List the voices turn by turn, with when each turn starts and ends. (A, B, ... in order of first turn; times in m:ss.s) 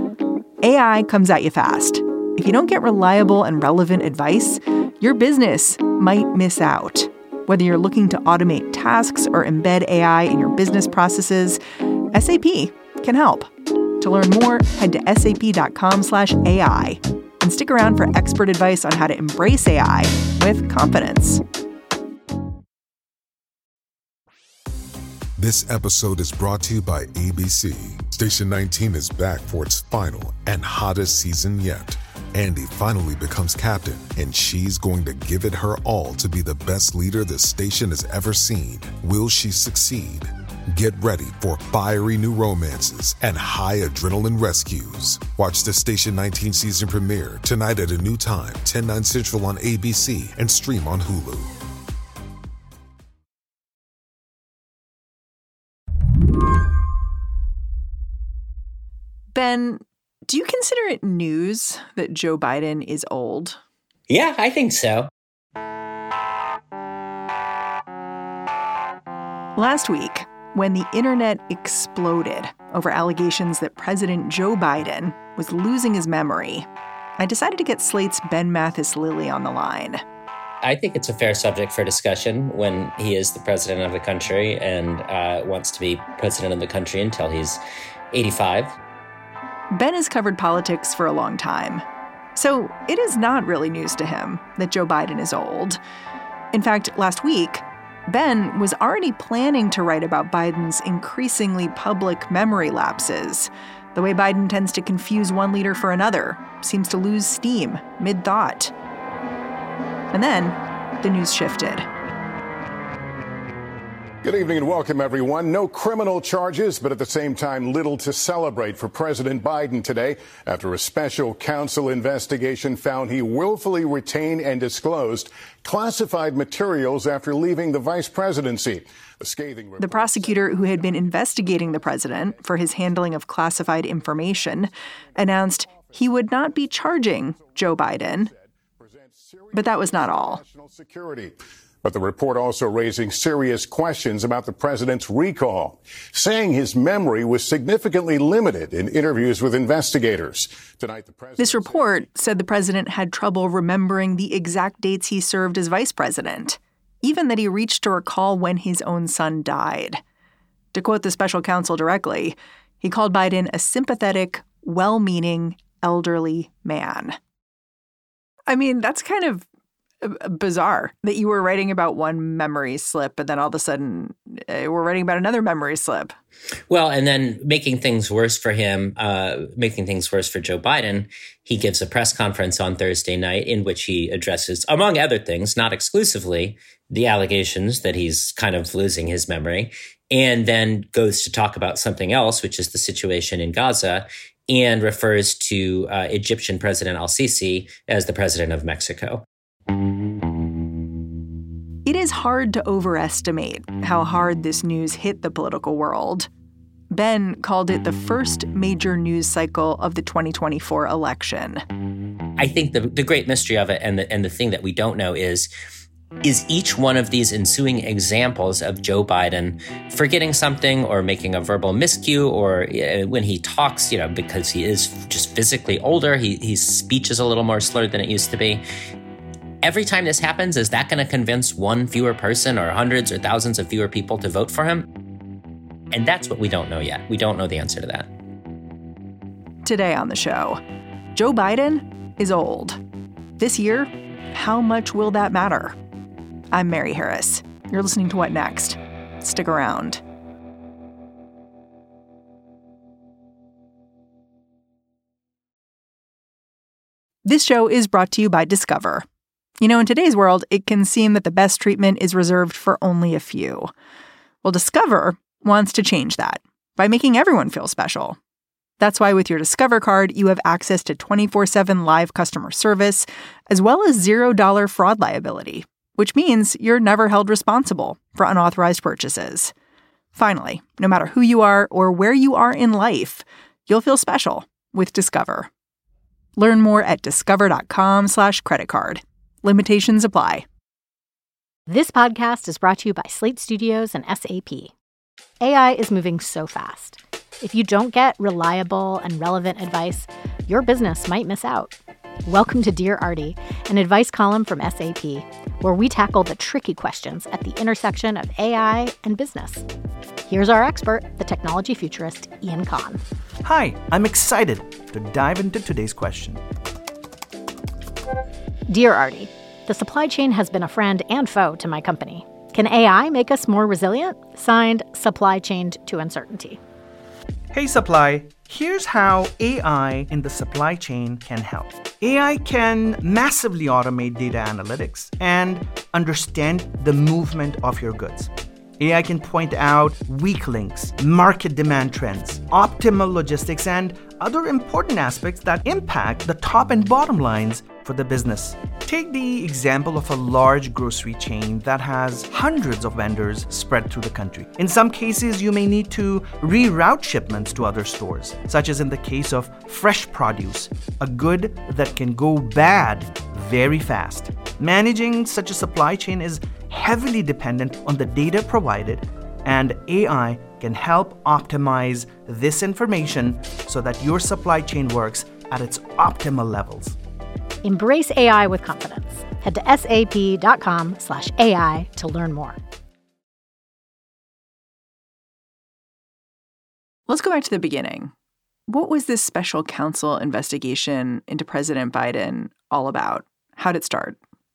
0:00.6-0:11.6 A
0:12.1-0:21.4 A
0:25.4-0:51.5 B
0:59.3-1:03.6 A
1:04.1-1:05.1 C
1:09.6-1:16.7 A
1:17.2-1:20.0 A
1:20.6-1:27.6 C
1:28.1-1:28.8 C
1:29.7-1:31.8 A
1:32.3-1:35.8 A
1:36.5-1:48.7 A
1:50.1-1:51.9 A
1:54.2-2:13.2 D
2:09.8-2:18.3 A
2:14.0-2:14.5 D
2:15.7-2:16.0 D
2:17.9-2:32.2 D
2:19.5-2:20.4 A
2:31.4-2:40.0 A
2:40.7-2:47.2 A
2:48.5-2:49.4 A
2:50.0-2:56.1 A
2:56.7-3:19.2 C
3:21.8-3:26.3 A
3:26.9-3:31.6 A
3:32.4-3:35.5 C
3:36.2-3:48.6 C
3:49.6-3:54.9 C
3:55.9-3:58.1 C
3:59.6-4:00.6 A
4:01.1-4:02.8 A
4:03.4-4:05.8 A
4:06.5-4:10.0 A
4:17.2-4:19.0 A
4:19.6-4:23.7 A
4:24.4-4:28.2 A
4:28.8-4:39.5 A
4:40.1-4:45.5 A
4:46.4-4:50.4 A
4:51.7-4:54.7 E
4:55.4-5:01.7 E
5:02.2-5:09.6 E
5:10.2-5:13.0 E
5:13.4-5:16.4 F
5:18.7-5:26.6 E
5:27.5-6:17.0 F
6:17.6-6:22.6 E
6:27.1-6:28.1 A
6:28.7-6:34.2 A